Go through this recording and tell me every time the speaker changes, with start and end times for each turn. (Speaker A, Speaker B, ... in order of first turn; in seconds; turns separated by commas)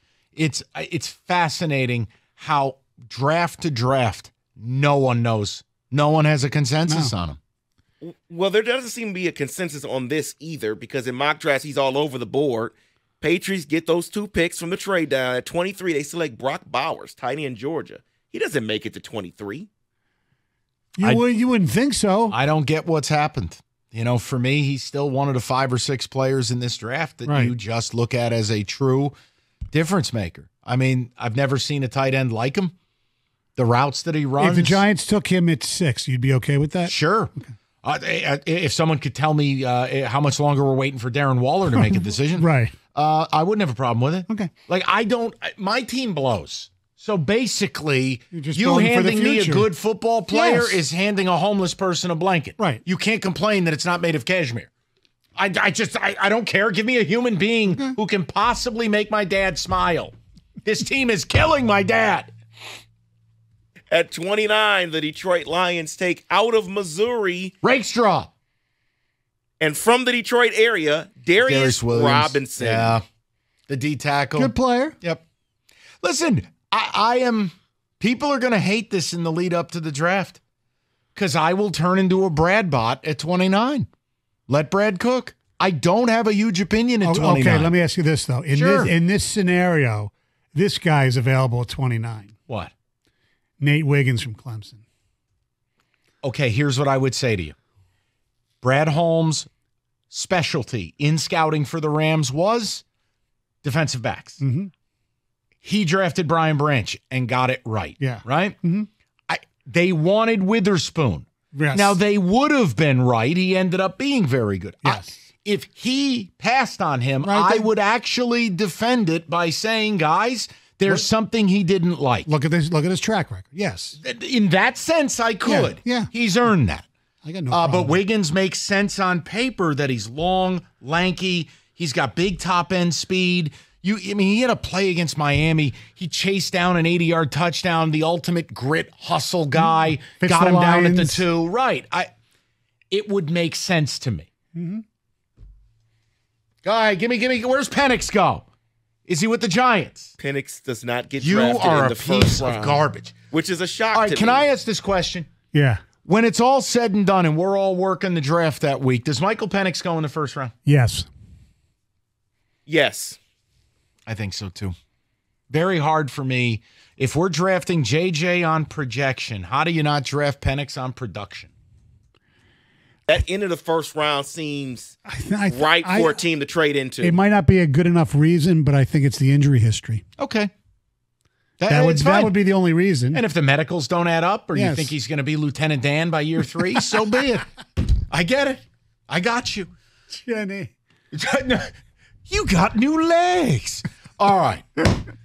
Speaker A: 0.3-7.4, Speaker B: 6.9-7.1, Speaker C: 8.0-19.7, Speaker B: 21.0-22.4, Speaker A: 22.3-29.1, Speaker B: 27.2-27.5, Speaker A: 29.7-32.7, Speaker A: 33.5-34.8, Speaker B: 34.4-37.5, Speaker A: 36.8-37.3, Speaker A: 37.8-54.7, Speaker B: 41.7-42.7, Speaker B: 48.3-49.7, Speaker B: 50.3-50.8, Speaker B: 52.6-52.8, Speaker A: 55.4-62.3, Speaker B: 57.7-58.0, Speaker C: 63.9-67.5, Speaker A: 67.6-68.3, Speaker C: 69.6-73.0, Speaker A: 71.4-73.0, Speaker A: 73.7-75.2, Speaker B: 74.3-75.0, Speaker A: 76.0-80.4, Speaker A: 81.1-83.9, Speaker A: 84.5-87.7, Speaker B: 87.0-92.3, Speaker A: 88.5-88.9, Speaker B: 93.6-94.8, Speaker A: 96.2-97.5, Speaker A: 98.6-99.5, Speaker A: 100.1-102.8, Speaker A: 103.6-104.4, Speaker B: 104.4-104.7, Speaker A: 105.6-108.6, Speaker B: 108.0-108.9, Speaker A: 109.3-122.3, Speaker B: 111.5-112.0, Speaker B: 114.8-115.1, Speaker B: 117.2-117.7, Speaker B: 122.2-124.0, Speaker A: 124.0-126.8, Speaker B: 125.4-126.1, Speaker B: 127.2-128.0, Speaker A: 127.5-142.1, Speaker B: 140.2-141.2, Speaker A: 142.9-144.3, Speaker B: 144.5-144.8, Speaker A: 146.6-148.4, Speaker A: 149.1-150.1, Speaker C: 150.2-154.4, Speaker A: 151.2-153.2, Speaker A: 153.9-155.3, Speaker B: 155.5-155.8, Speaker A: 156.0-160.5, Speaker B: 160.7-161.1, Speaker C: 162.7-163.2, Speaker A: 164.1-164.7, Speaker A: 165.5-171.5, Speaker C: 173.1-174.9, Speaker B: 175.1-176.2, Speaker C: 175.5-177.2, Speaker B: 177.0-180.0, Speaker A: 180.2-180.5, Speaker A: 181.6-182.3, Speaker B: 181.7-183.2, Speaker A: 183.1-187.5, Speaker B: 184.5-184.9, Speaker A: 188.1-189.7, Speaker B: 190.1-190.7, Speaker A: 191.1-191.7, Speaker A: 192.2-194.9